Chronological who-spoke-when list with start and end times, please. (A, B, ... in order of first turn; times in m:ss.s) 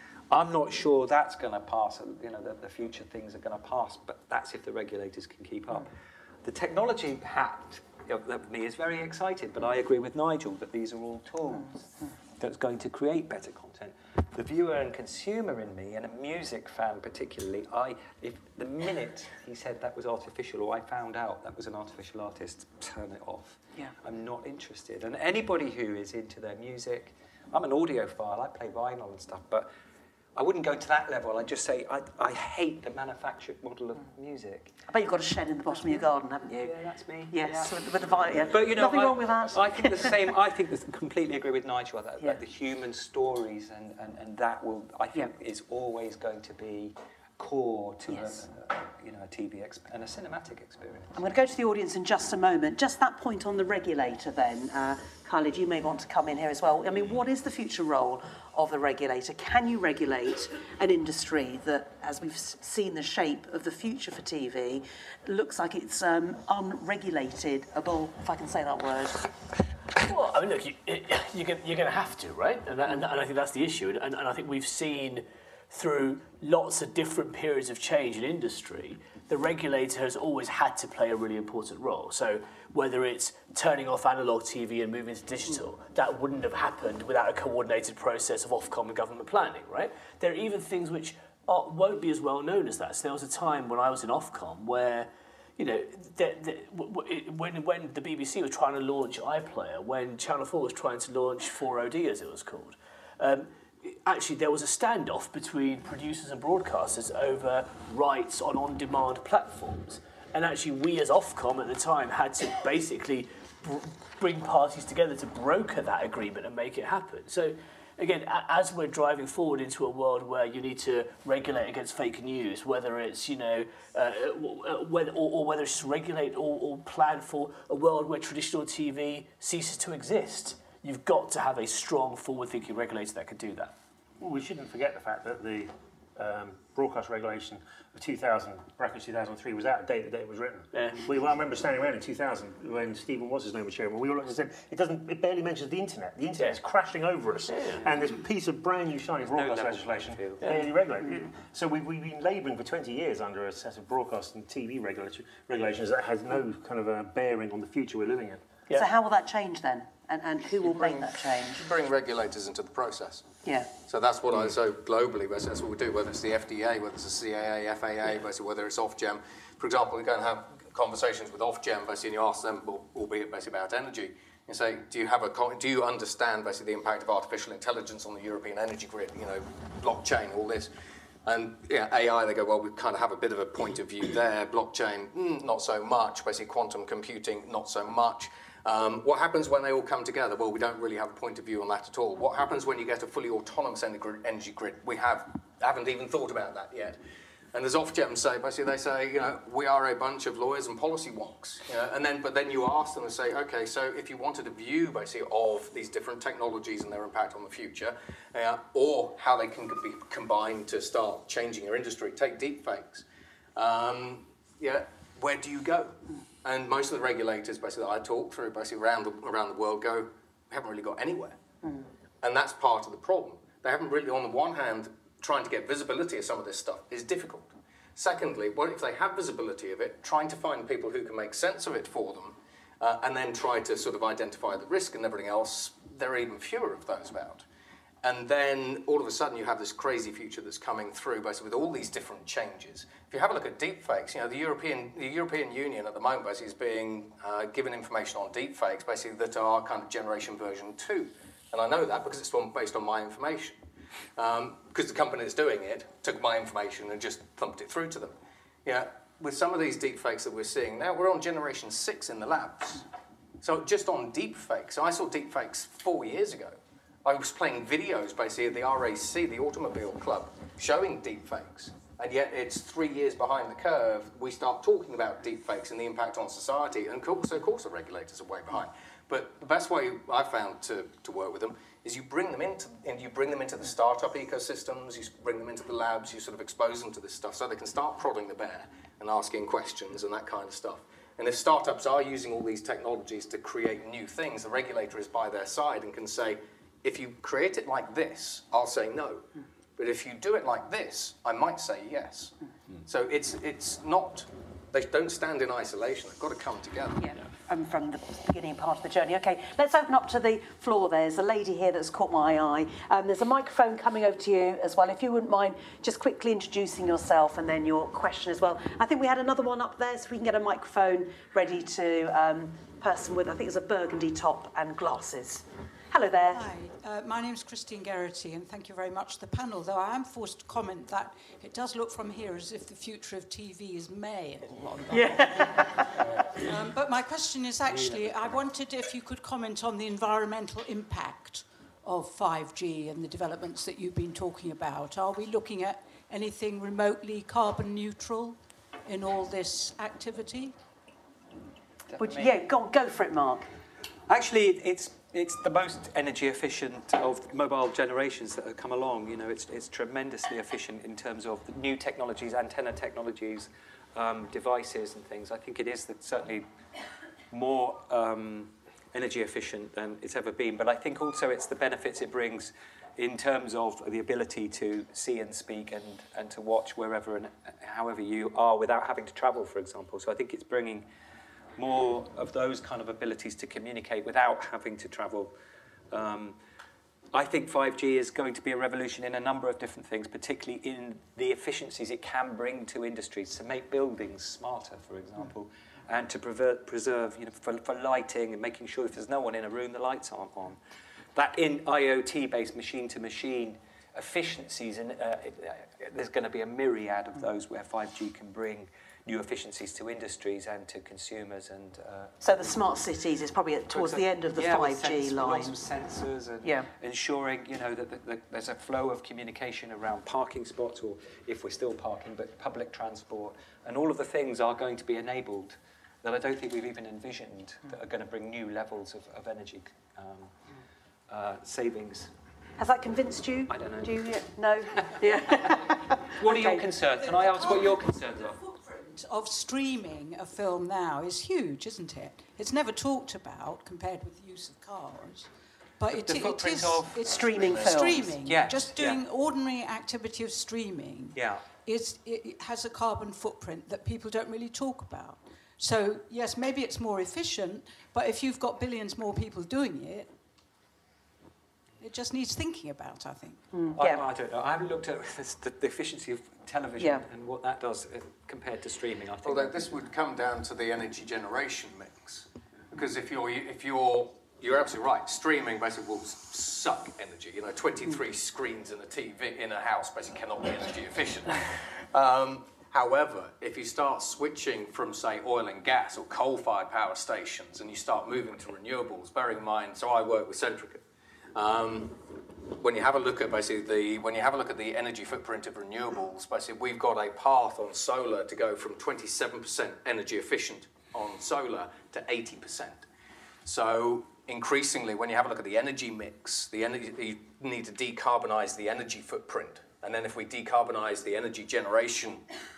0:00.3-0:29.7 A
0:30.4-0:34.7 A
0:34.9-0:36.7 B
0:35.8-0:51.2 A
0:37.3-0:40.2 B
0:48.1-0:48.4 B
0:51.1-1:09.3 B
1:10.0-2:13.7 C
2:14.2-2:38.4 D
2:20.7-2:21.0 C
2:27.5-2:27.9 C
2:29.2-2:30.6 A
2:30.4-2:30.7 C
2:38.7-2:41.6 B
2:40.6-2:43.2 E
2:43.4-2:43.7 B
2:43.8-3:00.7 E
3:01.3-3:17.0 E
3:17.5-3:33.0 E
3:33.6-3:41.4 E
3:42.2-3:57.4 E
3:58.0-4:13.6 E
4:14.2-4:22.8 E
4:23.4-4:59.2 E
4:59.8-5:02.3 E
5:02.9-5:07.0 E
5:07.0-5:26.5 B
5:26.3-5:50.5 F
5:34.9-5:36.0 B
5:51.9-5:52.4 A
5:52.0-5:53.5 B
5:54.1-6:06.5 A
6:07.3-6:20.9 A
6:21.6-6:25.3 A
6:25.9-6:26.4 A
6:27.1-6:40.6 A
6:41.2-6:52.6 A
6:52.2-6:55.6 B
6:53.7-7:10.3 A
7:11.1-7:12.1 A
7:12.6-7:16.6 B
7:13.5-7:14.2 A
7:14.8-7:18.4 A
7:17.0-7:40.1 F
7:25.9-7:29.0 A
7:27.0-7:28.1 B
7:31.2-7:31.4 A
7:41.8-7:43.4 F
7:43.5-7:44.0 B
7:43.8-7:49.6 A
7:46.8-7:47.0 B
7:49.2-8:10.8 E
8:11.4-8:12.0 E
8:12.6-8:22.8 E
8:23.4-8:32.2 E